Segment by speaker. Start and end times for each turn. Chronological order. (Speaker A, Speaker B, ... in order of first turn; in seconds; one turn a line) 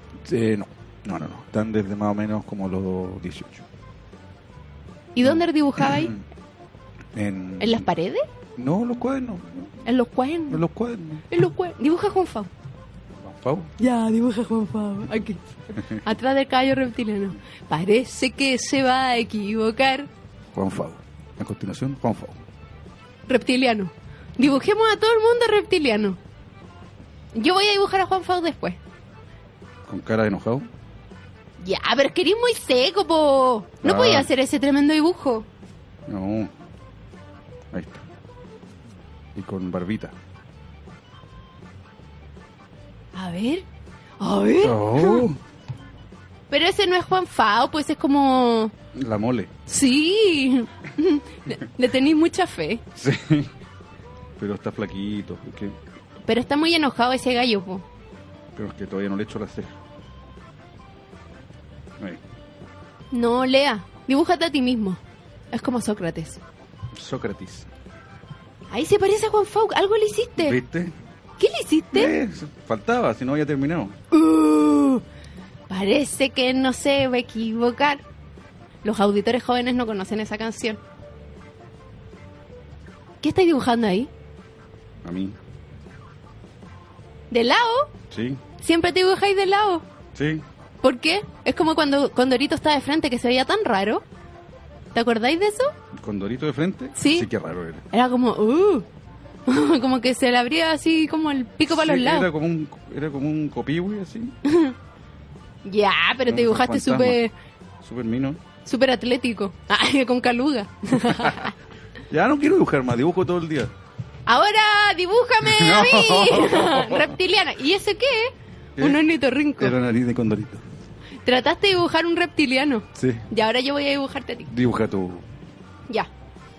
Speaker A: 0.2-3.6
Speaker B: 5.1-6.1
Speaker A: 5.2-6.2
Speaker A: 7.1-7.9
Speaker B: 7.6-8.2
Speaker A: 8.6-9.7
Speaker B: 9.8-10.6
Speaker A: 10.5-11.2
Speaker B: 11.3-12.5
Speaker A: 13.2-13.7
Speaker B: 13.8-20.1
Speaker A: 20.5-22.4
Speaker B: 23.3-26.2
Speaker B: 27.3-28.8
Speaker A: 29.9-30.7
Speaker B: 31.6-35.5
Speaker A: 33.8-34.3
Speaker A: 36.1-36.5
Speaker A: 37.7-38.0
Speaker A: 39.3-40.1
Speaker B: 43.1-43.6
Speaker B: 44.2-45.3
Speaker A: 44.6-45.4
Speaker B: 46.5-48.7
Speaker A: 48.9-49.5
Speaker B: 49.6-52.8
Speaker A: 53.0-53.5
Speaker A: 54.4-55.8
Speaker B: 56.3-57.8
Speaker A: 58.5-59.7
Speaker B: 63.1-65.0
Speaker B: 65.5-66.4
Speaker A: 66.9-67.7
Speaker B: 68.7-70.6
Speaker A: 70.4-70.9
Speaker B: 71.4-72.1
Speaker A: 71.9-74.0
Speaker B: 74.1-75.0
Speaker B: 75.7-78.0
Speaker B: 78.8-80.8
Speaker B: 83.2-84.1
Speaker A: 85.0-85.4
Speaker B: 87.3-87.9
Speaker A: 88.1-88.4
Speaker B: 88.6-89.8
Speaker A: 90.1-90.4
Speaker B: 90.8-94.0
Speaker B: 94.9-95.7
Speaker A: 95.9-97.8
Speaker B: 97.0-97.3
Speaker B: 97.9-98.8
Speaker B: 99.5-102.3
Speaker A: 101.7-104.3
Speaker B: 104.4-104.7
Speaker B: 105.6-107.3
Speaker A: 106.3-107.2
Speaker A: 107.8-108.4
Speaker B: 108.6-111.5
Speaker A: 111.1-111.5
Speaker A: 112.1-113.7
Speaker B: 114.3-119.8
Speaker A: 115.4-117.1
Speaker A: 118.8-119.0
Speaker A: 119.6-120.6
Speaker B: 121.2-124.5
Speaker A: 122.9-123.2
Speaker A: 124.5-125.2